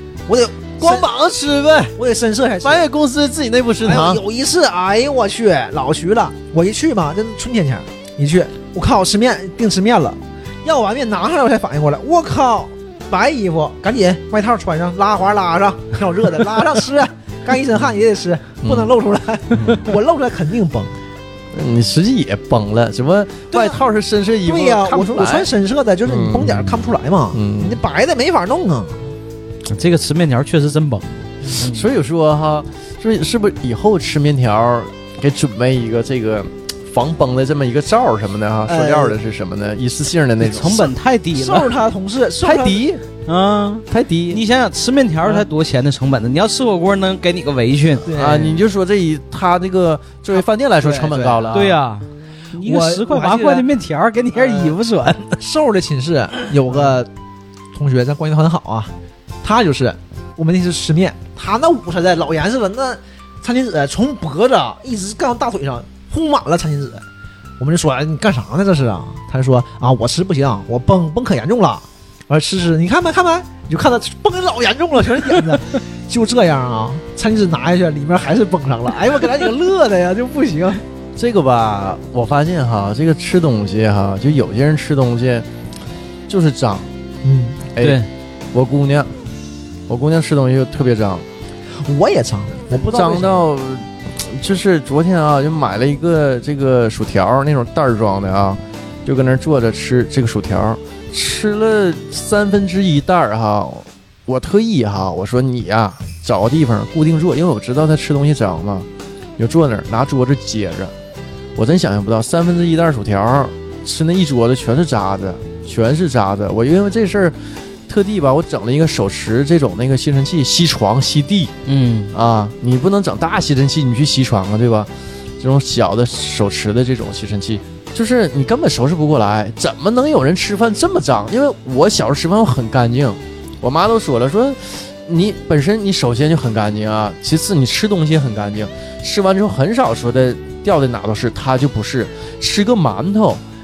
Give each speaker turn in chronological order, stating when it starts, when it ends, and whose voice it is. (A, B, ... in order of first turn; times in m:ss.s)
0:00.3-0:01.1 A
0:00.8-0:02.0 B
0:02.0-0:02.8 A
0:02.6-0:04.2 B
0:03.8-0:21.0 A
0:18.6-0:18.9 B
0:19.5-0:19.9 B
0:21.5-0:25.5 B
0:23.5-0:23.8 A
0:24.4-0:29.1 A
0:26.1-0:27.8 B
0:29.7-0:31.9 C
0:31.6-0:40.9 B
0:38.7-0:39.2 A
0:40.4-0:41.7 C
0:40.7-0:42.8 A
0:42.4-0:43.0 B
0:43.3-0:48.1 C
0:43.9-0:44.4 B
0:48.0-0:48.6 A
0:48.1-0:51.8 B
0:50.8-0:51.6 A
0:51.5-0:55.4 C
0:52.6-0:53.7 A
0:54.3-0:54.8 A
0:55.4-0:57.1 A
0:57.7-0:58.9 A
0:59.4-1:07.0 A
1:07.6-1:20.8 A
1:21.2-1:25.5 B
1:26.3-1:26.9 B
1:27.2-1:27.6 A
1:27.8-1:28.0 B
1:27.8-1:28.1 C
1:28.5-1:29.1 B
1:29.9-1:31.2 B
1:31.8-1:33.4 A
1:32.9-1:48.9 B
1:49.4-1:50.9 B
1:51.6-2:01.5 B
2:01.7-2:02.1 C
2:02.1-2:23.4 B